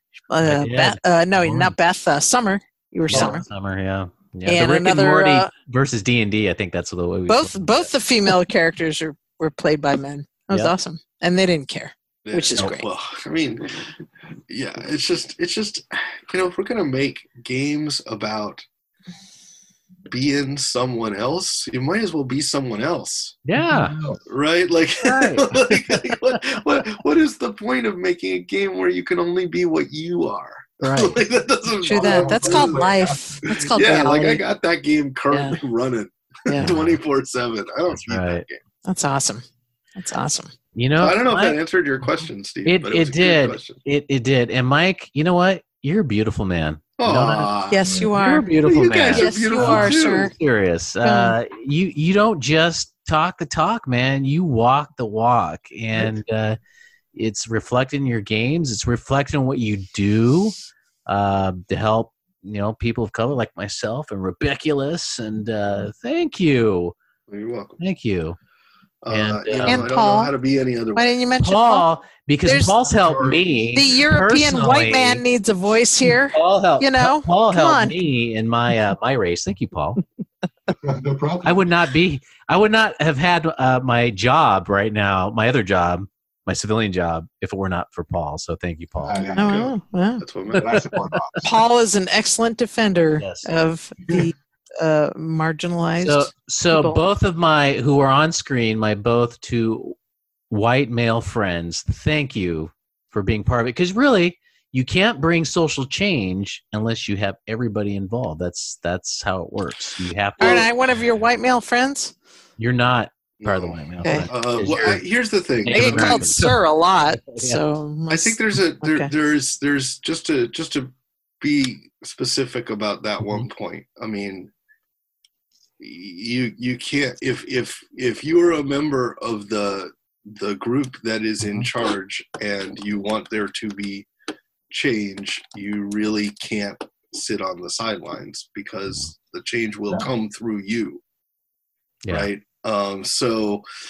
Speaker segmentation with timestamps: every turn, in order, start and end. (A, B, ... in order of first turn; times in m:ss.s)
0:00.3-0:03.4 A
0:00.4-0:01.8 B
0:03.1-0:07.9 B
0:04.5-0:05.5 A
0:07.3-0:12.9 A
0:12.2-0:13.8 C
0:14.5-0:18.6 C
0:20.1-0:23.4 C
0:23.5-0:24.0 B
0:23.7-0:24.2 D
0:24.3-0:32.9 C
0:25.0-0:26.4 B
0:30.8-0:31.2 B
0:31.8-0:34.4 A
0:31.9-0:33.5 D
0:33.5-0:38.6 C
0:35.3-0:35.6 A
0:36.6-0:37.0 B
0:37.9-0:38.4 B
0:38.9-0:39.4 A
0:40.0-0:40.5 A
0:40.8-0:41.6 B
0:41.0-0:43.8 C
0:42.6-0:47.5 B
0:47.0-0:48.0 C
0:47.7-0:48.5 A
0:48.2-0:56.6 B
0:48.5-0:50.3 C
0:49.1-0:50.3 A
0:51.0-0:51.4 A
0:57.2-1:07.0 B
1:07.3-1:07.8 C
1:07.8-1:08.4 B
1:09.0-1:11.1 C
1:09.1-1:09.9 B
1:09.7-1:10.3 A
1:11.0-1:11.9 A
1:11.4-1:15.2 B
1:12.4-1:12.8 A
1:13.0-1:13.8 D
1:13.7-1:18.0 A
1:16.3-1:20.0 B
1:20.8-1:21.7 D
1:21.4-1:29.3 B
1:29.0-1:29.7 D
1:29.3-1:30.9 C
1:29.4-1:30.2 A
1:30.5-1:31.5 D
1:30.7-1:31.2 B
1:31.4-1:37.0 A
1:33.2-1:33.5 B
1:36.0-1:40.0 B
1:40.5-1:50.7 B
1:50.4-1:52.1 A
1:52.6-1:55.0 B
1:53.4-1:56.3 C
1:54.0-1:54.3 A
1:55.6-1:56.6 B
1:55.7-1:59.1 A
1:57.2-1:57.6 B
1:58.1-2:04.5 C
2:03.2-2:03.5 B
2:05.8-2:14.1 C
2:14.7-2:21.0 C
2:22.0-2:22.3 B
2:22.1-2:23.6 C